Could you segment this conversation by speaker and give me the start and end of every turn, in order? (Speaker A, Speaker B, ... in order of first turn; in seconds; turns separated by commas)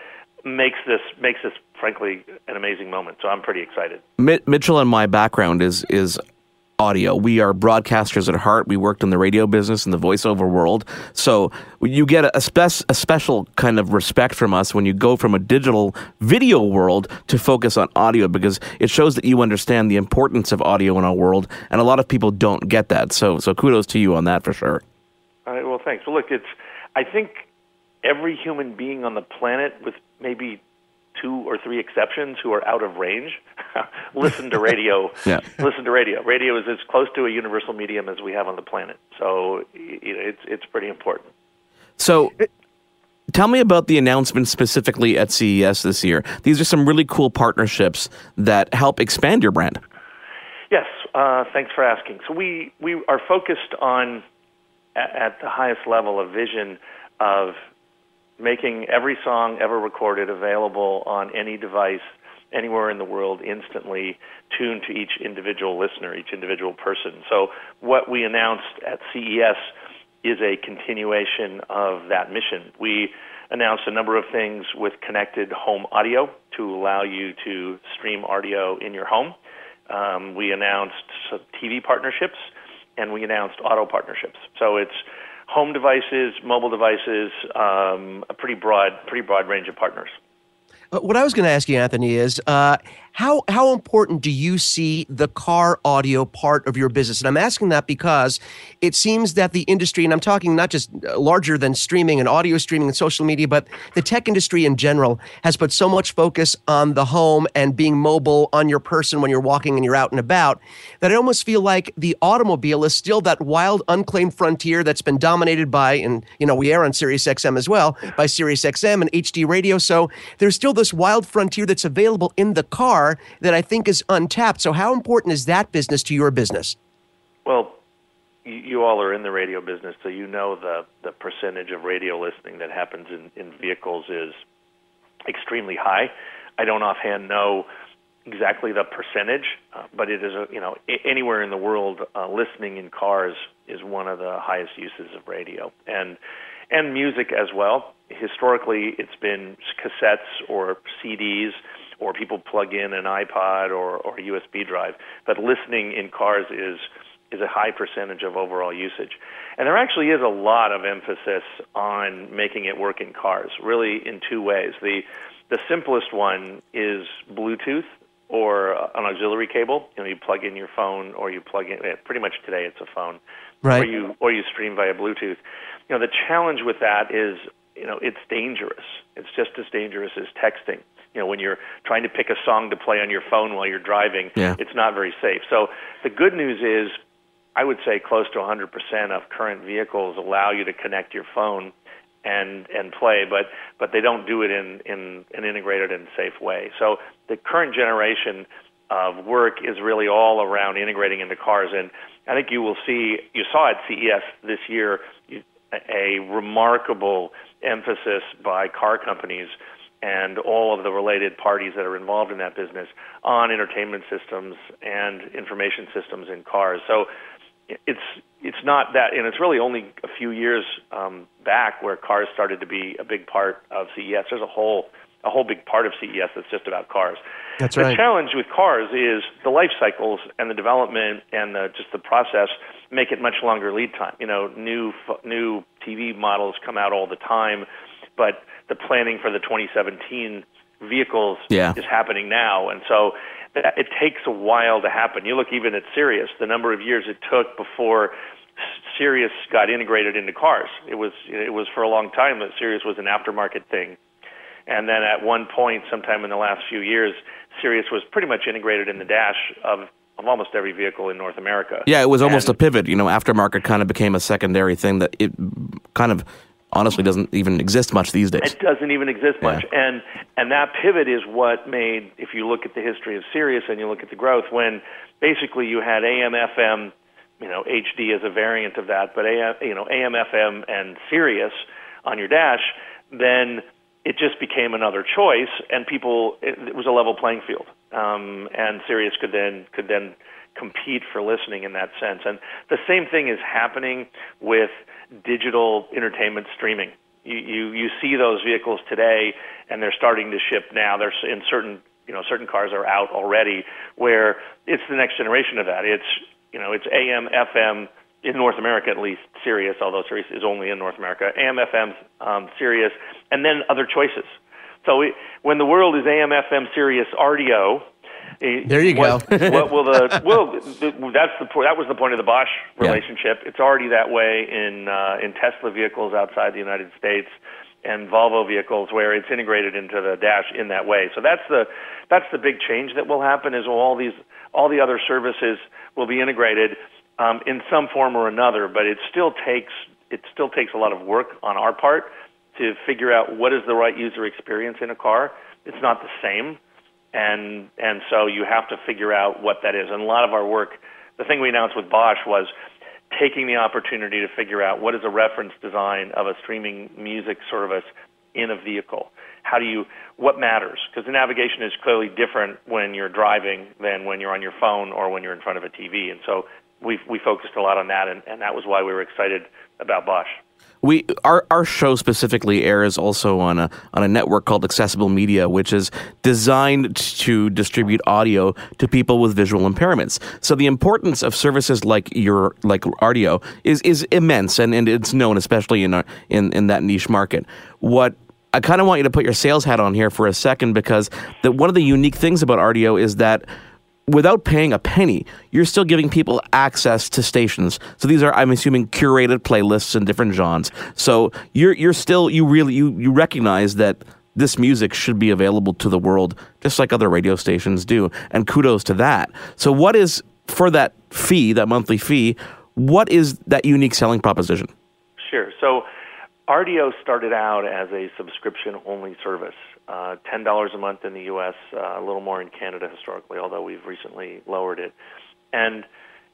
Speaker A: 0.5-4.0, Speaker B: 4.2-6.2, Speaker B: 6.8-24.8, Speaker A: 25.4-27.4, Speaker A: 28.0-30.6, Speaker A: 31.1-41.3, Speaker B: 35.2-35.5, Speaker B: 42.0-42.3, Speaker B: 43.3-49.8, Speaker A: 50.7-54.2, Speaker A: 55.0-57.6, Speaker A: 58.4-69.7, Speaker A: 70.2-79.3, Speaker A: 79.9-90.2, Speaker C: 90.9-126.8, Speaker A: 127.5-127.8, Speaker A: 128.4-134.4, Speaker A: 135.2-137.7, Speaker A: 138.3-146.2, Speaker A: 146.7-187.0, Speaker A: 187.6-191.7, Speaker A: 192.2-217.1, Speaker A: 217.7-227.2, Speaker C: 227.6-228.0, Speaker A: 227.7-248.1, Speaker B: 241.5-241.8, Speaker A: 248.9-254.0, Speaker A: 254.7-262.6, Speaker B: 261.8-268.5, Speaker A: 268.4-317.9, Speaker A: 318.4-346.6, Speaker C: 318.6-319.7, Speaker A: 347.1-352.5, Speaker A: 353.1-370.4, Speaker B: 370.8-393.4, Speaker B: 394.1-414.7, Speaker A: 415.2-415.9, Speaker A: 416.5-424.9, Speaker A: 425.5-425.9